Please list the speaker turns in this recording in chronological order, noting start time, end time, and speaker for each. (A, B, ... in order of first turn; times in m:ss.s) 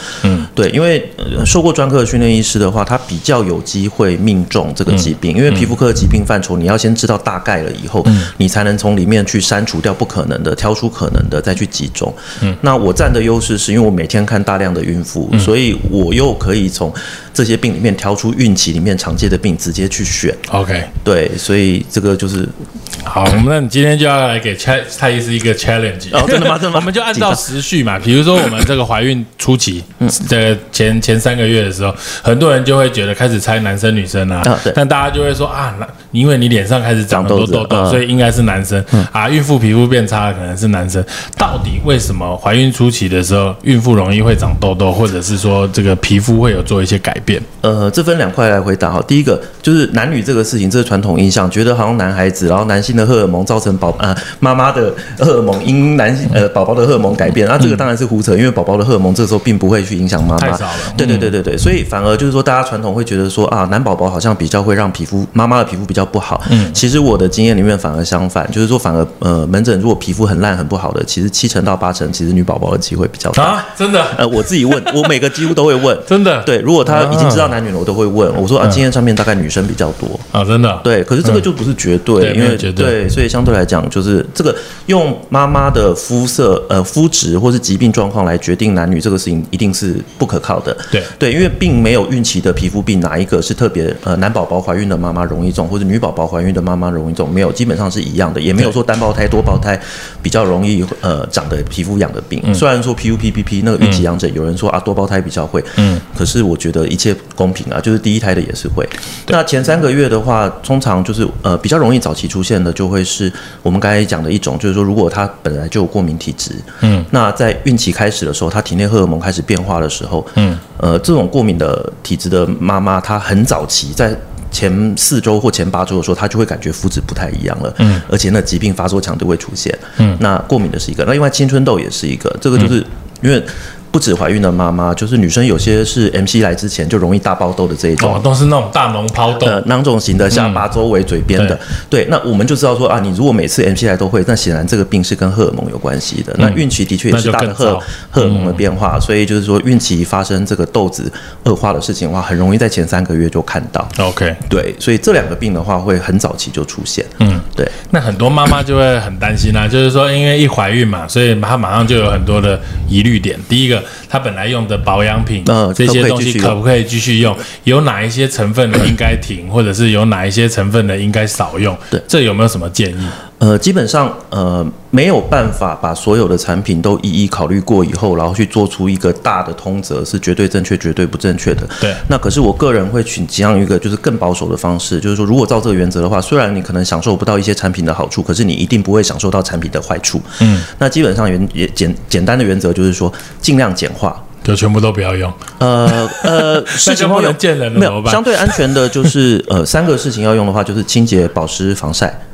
0:00.2-0:00.5 A
0:00.4-0:20.4 B
0:04.9-0:05.6 A
0:20.5-0:20.9 A
0:21.0-0:22.6 B
0:23.0-0:47.4 A
0:26.1-0:27.4 B
0:34.4-0:34.8 B
0:37.1-0:38.0 B
0:47.6-1:20.2 B
1:00.4-1:01.3 A
1:06.5-1:06.8 A
1:13.3-1:15.2 A
1:16.1-1:17.5 A
1:20.3-1:21.4 A
1:20.8-2:18.2 B
1:22.2-1:23.0 A
1:45.8-1:46.0 A
1:56.8-1:57.1 A
2:00.4-2:00.6 A
2:07.8-2:08.0 A
2:18.0-2:19.6 A
2:19.3-2:33.9 B
2:20.3-2:20.6 A
2:26.4-2:28.6 A
2:34.0-2:34.4 A
2:34.5-2:37.8 B
2:37.2-2:53.2 A
2:45.4-2:46.6 B
2:53.3-3:14.2 B
3:10.4-3:10.7 A
3:14.4-3:18.8 A
3:15.6-3:22.2 B